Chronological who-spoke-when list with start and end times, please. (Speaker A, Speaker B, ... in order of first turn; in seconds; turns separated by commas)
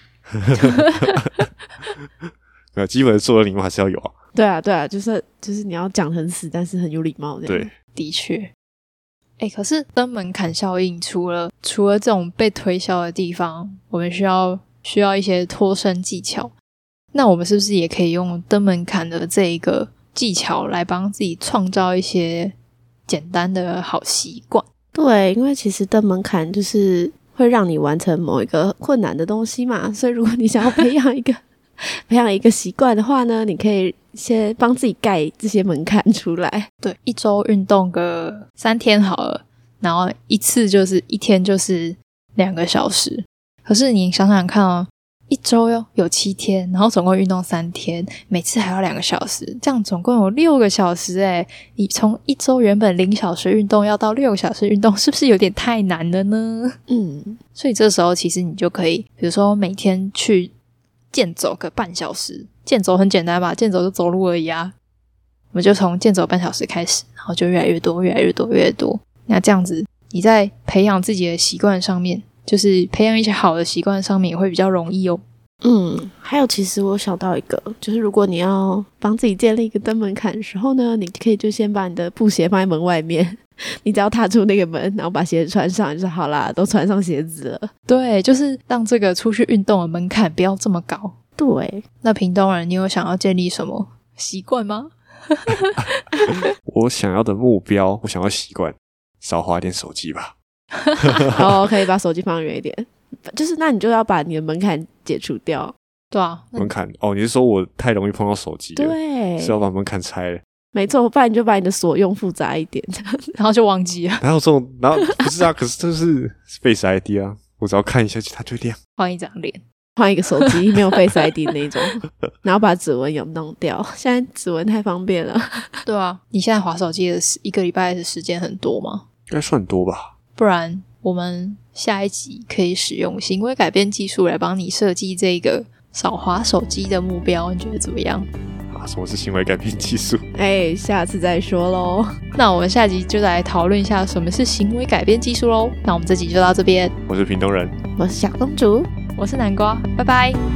Speaker A: 0.4-1.2, Speaker B: 0.6-1.2, Speaker A: 2.7-4.1, Speaker C: 4.3-7.7, Speaker A: 7.5-7.7, Speaker B: 7.9-8.5, Speaker B: 9.4-16.5, Speaker B: 17.1-22.5, Speaker B: 23.1-24.6, Speaker C: 24.9-36.7, Speaker B: 36.8-56.7, Speaker C: 56.9-57.4, Speaker B: 57.5-60.5, Speaker B: 61.1-64.7, Speaker B: 65.5-75.2, Speaker C: 75.6-87.7, Speaker B: 87.9-91.1, Speaker C: 91.4-91.8, Speaker B: 92.0-96.5, Speaker A: 96.7-100.3, Speaker B: 100.9-101.2, Speaker A: 101.0-101.4, Speaker C: 101.3-105.7, Speaker B: 106.1-106.7, Speaker A: 106.5-110.4, Speaker C: 108.8-109.6, Speaker C: 110.7-113.3, Speaker B: 113.3-114.2, Speaker A: 114.2-118.8, Speaker B: 119.0-119.6, Speaker C: 120.0-125.8, Speaker B: 125.8-129.0, Speaker A: 129.3-130.1, Speaker B: 130.3-138.3, Speaker A: 138.7-140.2, Speaker C: 140.3-142.1, Speaker B: 142.3-146.9, Speaker A: 147.1-147.7, Speaker C: 147.9-148.9, Speaker B: 149.1-150.4